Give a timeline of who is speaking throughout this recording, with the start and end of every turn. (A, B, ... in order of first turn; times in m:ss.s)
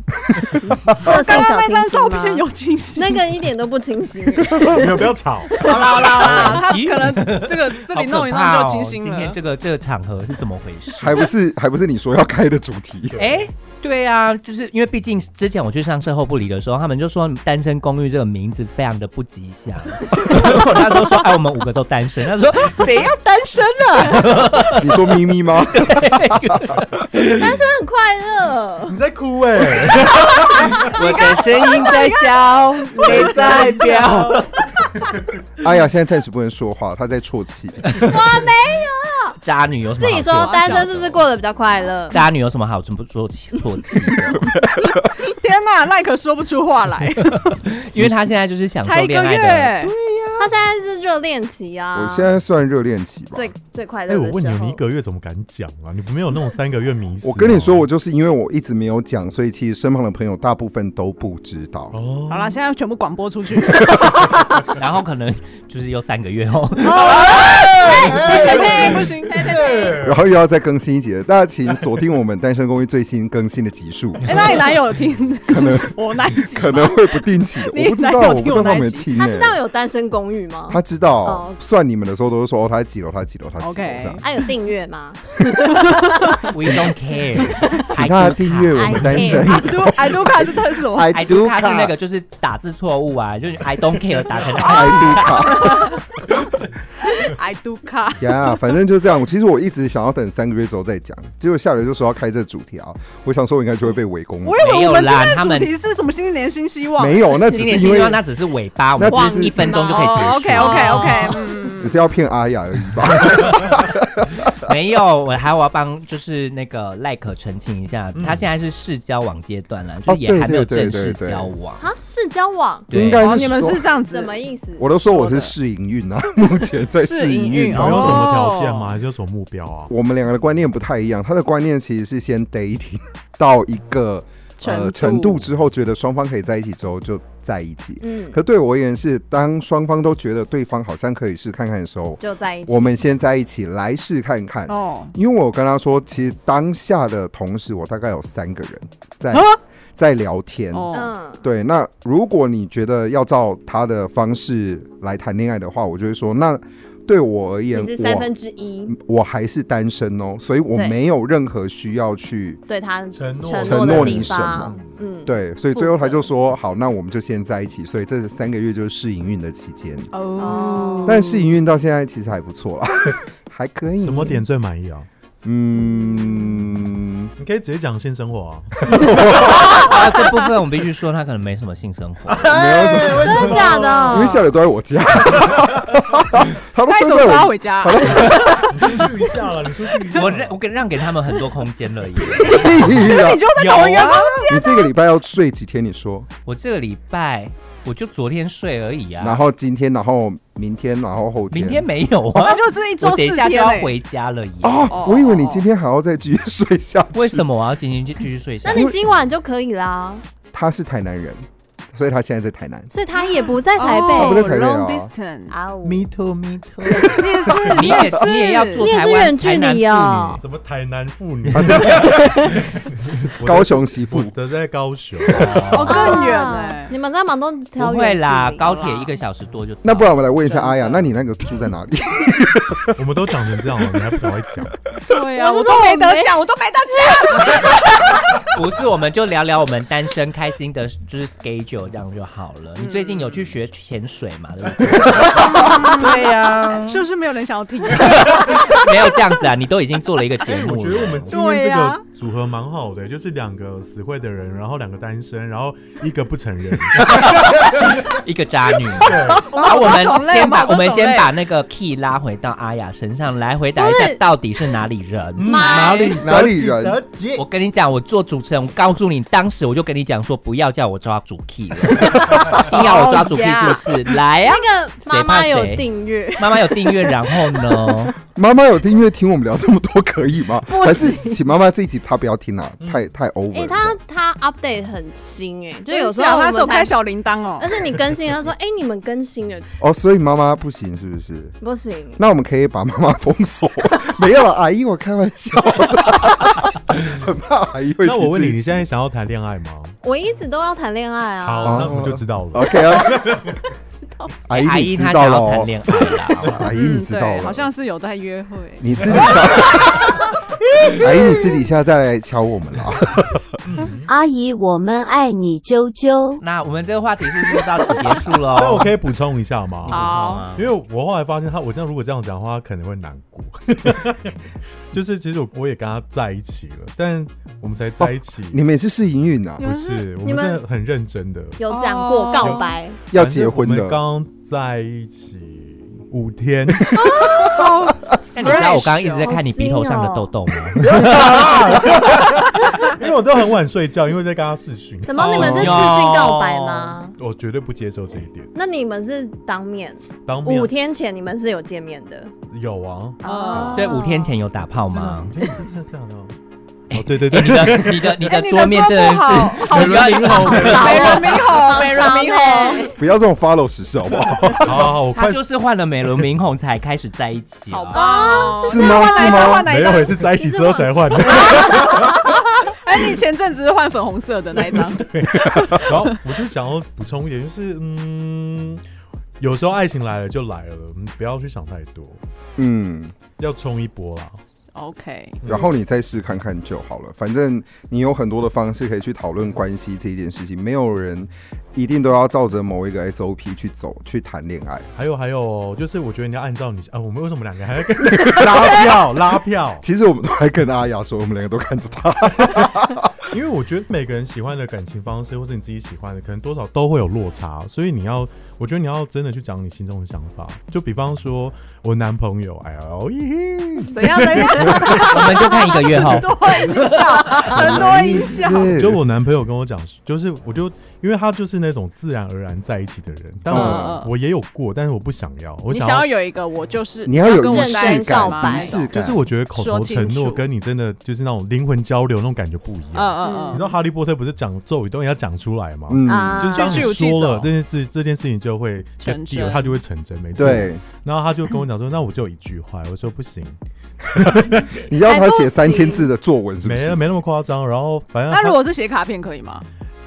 0:00.4-0:01.1 A
0:01.0-0:02.4 B
0:01.1-0:03.2 C
0:03.0-0:06.0 B
0:04.6-0:06.6 D
0:05.6-0:09.4 C
0:06.2-0:11.2 E
0:11.0-0:13.2 A
0:13.2-0:13.4 D
0:13.2-0:27.4 E
0:24.8-0:26.7 A
0:27.3-0:29.0 B
0:28.9-0:31.0 D
0:29.7-0:32.4 B
0:30.8-0:34.6 E
0:33.0-0:35.3 D
0:35.6-0:38.1 A
0:38.0-0:39.4 B
0:39.4-0:41.3 E
0:40.0-0:42.2 B
0:40.4-0:40.8 C
0:42.1-0:44.4 E
0:44.8-0:47.6 C
0:47.5-0:49.8 E
0:48.8-0:49.9 C
0:50.4-0:52.4 B
0:51.9-0:53.5 A
0:53.3-0:54.8 B
0:54.1-0:57.9 D
0:57.2-1:02.0 A
1:01.9-1:02.6 D
1:02.3-1:04.4 C
1:04.7-1:07.2 E
1:06.8-1:09.4 C
1:07.2-1:10.2 D
1:07.8-1:10.0 B
1:10.0-1:14.5 A
1:14.2-1:19.1 C
1:15.5-1:19.6 A
1:19.2-1:21.6 B
1:20.7-1:24.2 A
1:23.6-1:24.2 C
1:24.2-1:26.5 B
1:26.4-1:29.1 E
1:26.6-1:26.9 A
1:27.7-1:32.0 A
1:28.8-1:29.6 B
1:29.5-1:31.2 C
1:31.1-1:35.4 E
1:34.6-1:35.9 A
1:34.8-1:35.9 C
1:37.1-1:38.7 C
1:38.2-1:44.6 A
1:44.4-1:47.4 C
1:44.6-1:45.7 E
1:47.0-1:48.2 A
1:47.5-1:51.2 E
1:49.0-1:49.7 A
1:49.1-1:51.9 B
1:49.7-1:52.0 C
1:51.8-1:54.5 A
1:54.6-2:01.8 E
1:58.2-1:58.5 D
2:00.1-2:01.5 A
2:01.8-2:02.9 B
2:02.9-2:03.3 E
2:02.9-2:03.9 A
2:03.2-2:04.4 C
2:03.9-2:04.9 B
2:04.8-2:08.2 A
2:05.0-2:05.5 C
2:07.0-2:08.9 C
2:07.7-2:09.9 D
2:09.9-2:38.3 A
2:14.6-2:15.4 C
2:18.0-2:18.4 B
2:22.2-2:23.0 B
2:24.7-2:25.1 C
2:29.3-2:29.6 C
2:30.7-2:31.1 C
2:30.9-2:31.4 B
2:37.7-2:39.0 B
2:38.9-2:42.6 A
2:42.7-2:46.3 B
2:43.1-2:44.9 D
2:43.6-2:50.1 A
2:50.1-2:51.5 C
2:50.4-2:51.3 B
2:51.0-2:54.4 A
2:54.0-2:55.1 D
2:55.4-2:57.3 A
2:57.4-2:59.8 D
2:58.8-2:59.9 A
2:59.4-3:02.5 E
3:02.3-3:04.3 D
3:02.5-3:08.7 A
3:02.7-3:04.4 B
3:06.9-3:09.1 C
3:08.7-3:10.6 D
3:10.1-3:12.8 E
3:12.4-3:13.5 A
3:12.9-3:14.9 C
3:13.6-3:14.4 D
3:14.0-3:14.2 E
3:14.5-3:16.3 A
3:16.4-3:19.4 E
3:19.2-3:21.9 A
3:21.5-3:24.9 E
3:22.4-3:23.9 C
3:24.6-3:27.5 A
3:24.9-3:25.6 C
3:27.1-3:29.0 E
3:28.6-3:30.2 B
3:28.7-3:29.0 A
3:30.5-3:32.9 A
3:32.9-3:34.4 B
3:33.2-3:35.6 C
3:34.1-3:35.1 A
3:35.5-3:36.1 B
3:35.8-3:37.4 D
3:37.1-3:38.9 C
3:37.7-3:40.4 E
3:38.8-3:40.4 B
3:40.4-3:46.0 D
3:41.5-3:42.5 A
3:43.2-3:44.3 A
3:45.3-3:46.3 E
3:45.7-3:46.9 C
3:45.8-3:48.8 B
3:47.8-3:50.2 E
3:48.7-3:49.1 C
3:49.8-3:53.0 A
3:53.0-3:54.8 D
3:55.1-3:58.2 C
3:55.3-3:56.4 B
3:57.0-3:57.6 B
3:58.5-4:07.0 E
4:02.8-4:03.5 C
4:04.9-4:05.3 D
4:05.2-4:08.8 C
4:07.9-4:11.4 E
4:10.4-4:18.2 D
4:11.3-4:12.0 C
4:17.0-4:25.8 E
4:19.0-4:19.5 D
4:19.4-4:21.3 C
4:23.8-4:24.2 B
4:25.4-4:27.4 D
4:25.5-4:26.2 B
4:25.7-4:26.1 C
4:26.2-4:27.0 A
4:27.4-4:35.9 E
4:32.7-4:33.8 C
4:34.4-4:38.0 B
4:36.4-4:38.1 E
4:38.3-4:44.0 A
4:40.7-4:41.4 B
4:42.8-4:43.1 D
4:43.5-4:46.9 B
4:45.9-4:47.8 C
4:47.6-4:49.7 B
4:49.8-4:51.6 A
4:51.6-4:52.2 B
4:52.2-4:58.9 A
4:58.0-5:00.0 D
5:00.0-5:02.0 B
5:01.4-5:03.5 D
5:01.6-5:03.4 A
5:04.0-5:04.4 B
5:04.5-5:05.7 A
5:04.5-5:06.6 E
5:06.4-5:07.7 A
5:06.8-5:09.4 C
5:08.8-5:10.2 A
5:09.0-5:10.1 D
5:10.6-5:11.6 D
5:11.0-5:13.4 A
5:13.6-5:14.1 D
5:14.1-5:16.4 F
5:16.4-5:18.9 E
5:18.4-5:28.6 D
5:19.8-5:20.7 E
5:19.9-5:20.5 C
5:28.0-5:29.6 A
5:29.6-5:31.6 D
5:29.6-5:30.1 C
5:30.2-5:30.6 B
5:31.6-5:33.0 B
5:31.7-5:32.8 C
5:32.4-5:37.3 D
5:33.1-5:34.0 A
5:37.2-5:39.3 C
5:38.3-5:41.2 E
5:38.4-5:40.3 B
5:40.8-5:46.1 D
5:45.0-5:47.2 B
5:45.2-5:47.0 E
5:47.2-5:48.5 D
5:48.6-5:52.3 B
5:50.2-5:50.7 D
5:52.5-5:53.2 D
5:53.2-5:54.0 C
5:53.2-5:54.4 B
5:53.7-5:55.4 E
5:54.8-5:56.4 D
5:56.9-6:01.2 E
5:56.9-5:58.2 D
5:58.2-6:02.9 C
5:59.6-6:01.5 D
6:00.5-6:03.0 B
6:03.0-6:05.0 A
6:04.5-6:05.4 D
6:05.1-6:08.1 E
6:07.7-6:15.1 C
6:07.9-6:09.6 B
6:08.6-6:09.7 A
6:09.6-6:12.5 D
6:11.3-6:12.0 B
6:14.6-6:18.8 D
6:15.4-6:15.9 A
6:19.4-6:22.2 D
6:22.6-6:23.2 A
6:23.4-6:24.4 D
6:24.8-6:25.4 C
6:25.5-6:34.9 A
6:35.0-6:39.8 D
6:38.0-6:39.1 A
6:39.8-6:43.2 A
6:43.3-6:55.4 D
6:53.9-6:58.8 C
6:54.9-6:56.4 E
6:57.5-6:59.0 A
6:58.7-7:06.1 D
7:03.5-7:04.0 A
7:03.5-7:04.1 C
7:05.7-7:08.9 C
7:07.1-7:09.2 A
7:07.3-7:08.9 B
7:08.9-7:23.6 D
7:09.5-7:10.4 C
7:12.9-7:13.7 C
7:13.2-7:13.7 B
7:15.9-7:16.6 A
7:16.1-7:16.9 B
7:16.5-7:17.5 C
7:19.0-7:19.8 C
7:20.4-7:20.8 A
7:24.1-7:24.8 D
7:24.2-7:27.0 A
7:25.0-7:26.1 B
7:26.6-7:28.6 D
7:28.3-7:29.7 C